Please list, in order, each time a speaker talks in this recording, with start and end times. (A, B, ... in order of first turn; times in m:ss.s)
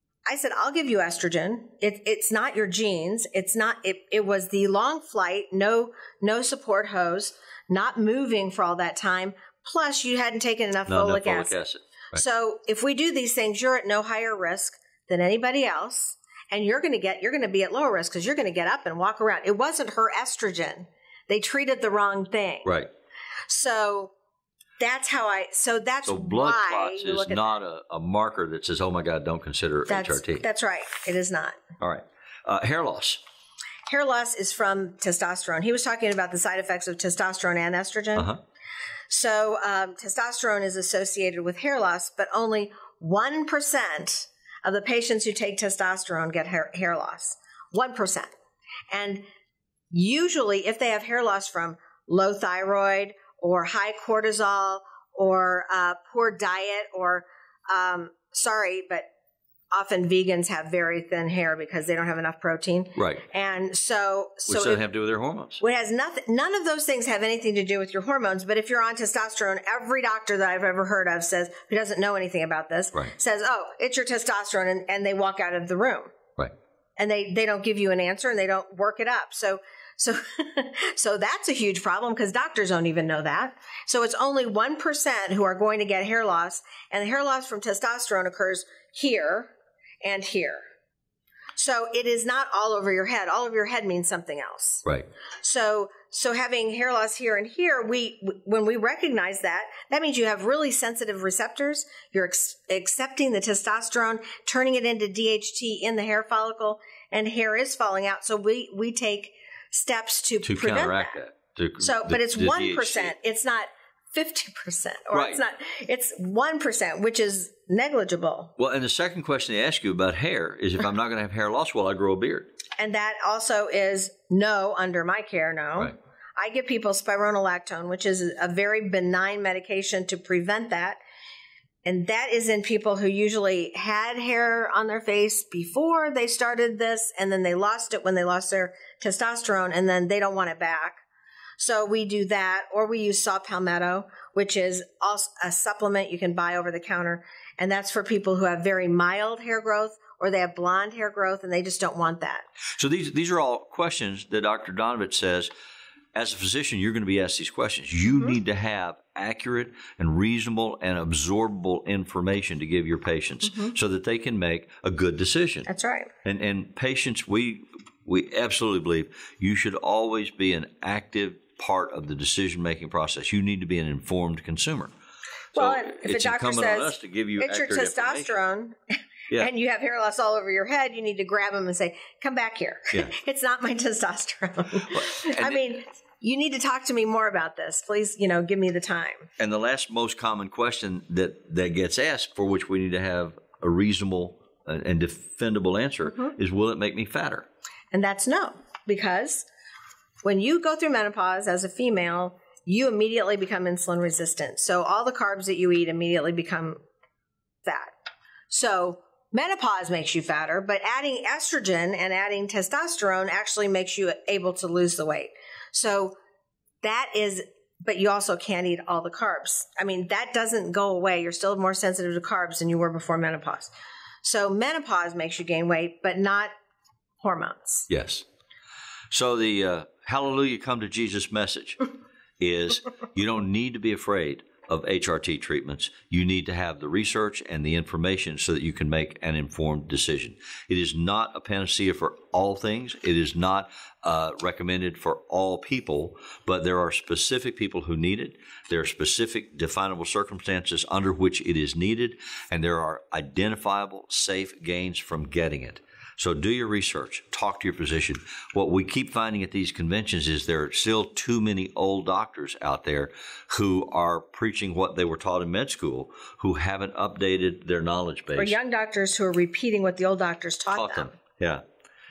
0:00.2-0:11.6 A
0:10.9-0:12.2 B
0:12.1-0:22.7 A
0:22.6-0:22.9 B
0:23.5-0:24.1 A
0:24.8-0:27.5 A
0:26.0-0:30.4 B
0:29.9-0:31.6 A
0:31.8-0:33.2 B
0:33.9-0:38.3 A
0:38.1-0:38.4 B
0:39.1-0:48.3 A
0:48.9-0:49.2 A
0:49.9-0:59.0 A
0:59.7-1:04.8 A
1:03.0-1:03.2 B
1:04.5-1:05.6 B
1:05.6-1:16.1 A
1:17.0-1:29.5 A
1:30.0-1:30.6 A
1:31.5-1:34.8 A
1:35.4-1:51.2 A
1:50.4-1:53.1 B
1:51.8-1:58.5 A
1:55.1-1:55.4 B
1:58.6-2:02.5 B
2:02.8-2:11.0 A
2:11.8-2:21.0 A
2:21.6-2:32.4 A
2:32.8-2:35.5 B
2:36.1-2:45.7 B
2:45.7-2:46.1 A
2:46.2-2:54.9 B
2:55.5-2:58.3 B
2:55.6-2:58.8 A
2:59.4-3:09.3 A
3:04.9-3:05.6 B
3:09.4-3:17.5 B
3:17.9-3:19.4 A
3:20.2-3:26.8 A
3:27.6-3:27.9 A
3:28.5-3:36.2 A
3:36.8-3:43.7 A
3:44.2-3:46.5 A
3:47.2-3:47.9 A
3:47.9-3:48.2 B
3:49.1-3:51.8 B
3:52.4-4:28.6 B
4:28.4-4:31.1 A
4:30.7-4:31.6 B